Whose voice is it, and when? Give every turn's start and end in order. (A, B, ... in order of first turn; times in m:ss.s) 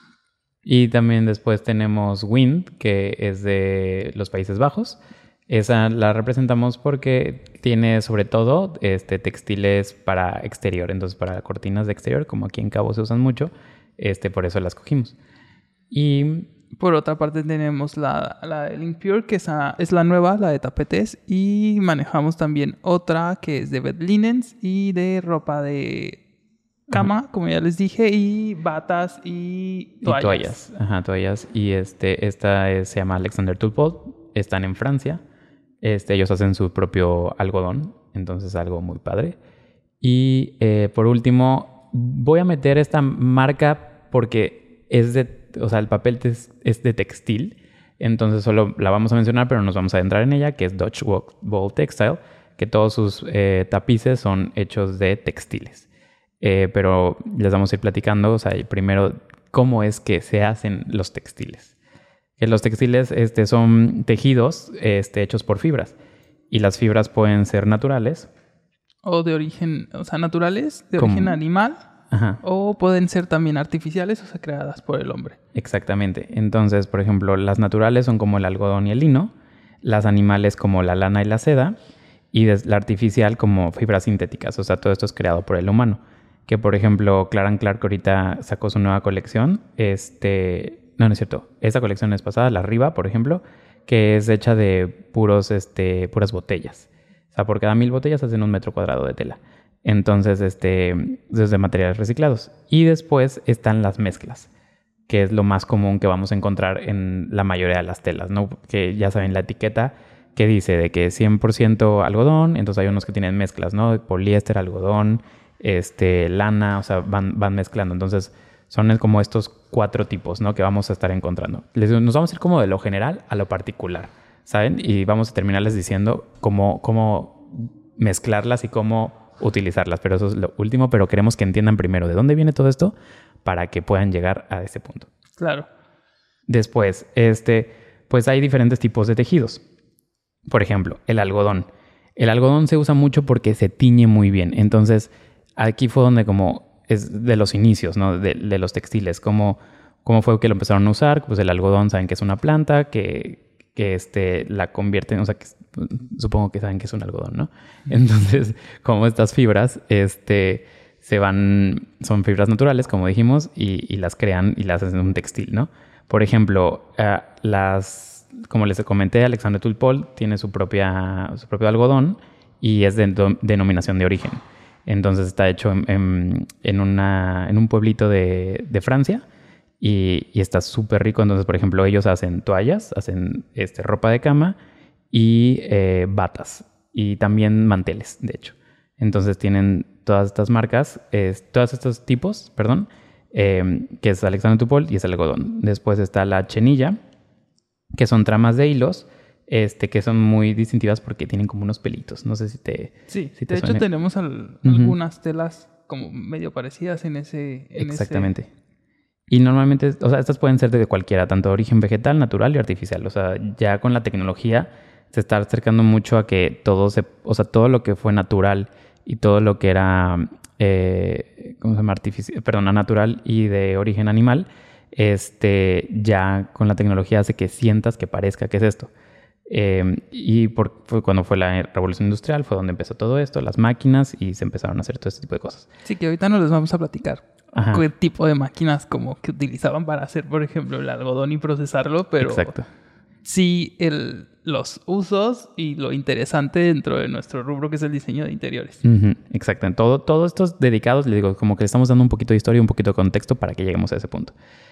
0:00.6-0:15.2 A
0:15.9-0:16.5 A
0:16.8-0:26.2 B
0:26.9-0:30.5 B
0:30.0-0:35.2 A
0:35.8-0:39.4 A
0:40.0-0:55.9 A
0:56.4-1:01.7 A
1:02.4-1:06.0 A
1:06.5-1:08.3 A
1:09.0-1:11.8 B
1:11.0-1:11.4 A
1:12.1-1:12.4 A
1:12.4-1:15.4 B
1:15.5-1:21.8 A
1:22.3-1:44.5 A
1:45.1-2:15.1 A
2:15.4-2:15.7 B
2:16.5-2:19.6 A
2:20.5-2:59.2 A
2:59.8-3:04.6 A
3:05.1-3:17.0 A
3:18.0-3:23.8 A
3:23.1-3:28.3 B
3:24.6-3:25.0 A
3:27.8-3:28.5 A
3:29.3-3:48.9 A
3:49.5-3:55.7 A
3:55.8-4:02.5 B
3:57.5-3:57.8 A
4:02.2-4:02.7 A
4:03.2-4:08.8 B
4:08.8-4:14.4 A